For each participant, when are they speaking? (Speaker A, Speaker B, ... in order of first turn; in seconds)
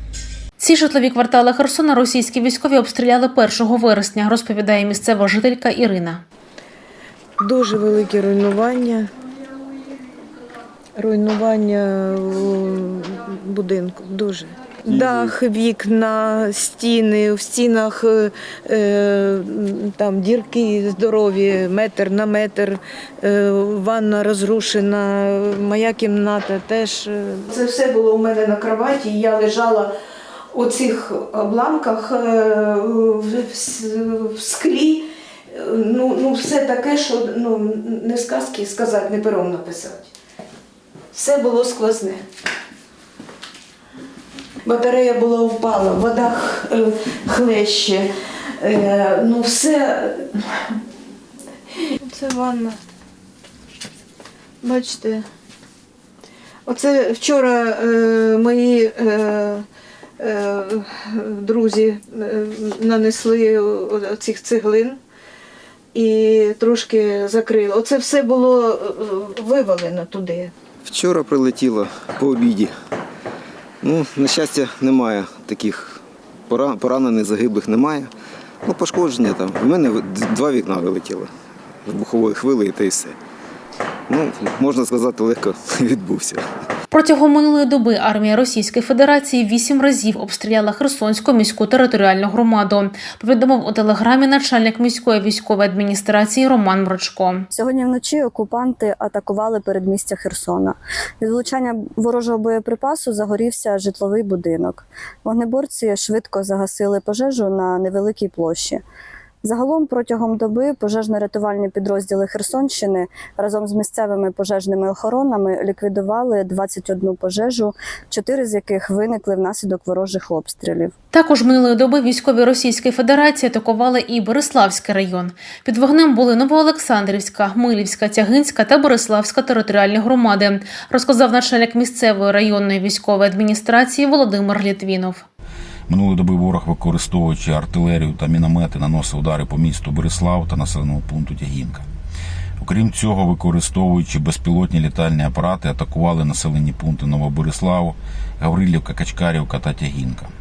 Speaker A: 0.6-6.2, 86.9-97.5, 121.1-135.2
Speaker B: 7.4-9.1, 10.9-29.9, 30.5-40.1, 41.1-42.3, 44.6-50.8, 51.7-52.8, 54.6-55.3, 56.6-59.6, 60.2-65.0, 65.9-70.5
Speaker C: 14.9-15.3, 70.8-72.7, 73.8-78.1, 78.6-81.3, 81.8-83.2, 84.1-86.4
Speaker D: 97.5-108.8, 109.4-120.9
Speaker E: 135.9-141.8, 142.6-150.3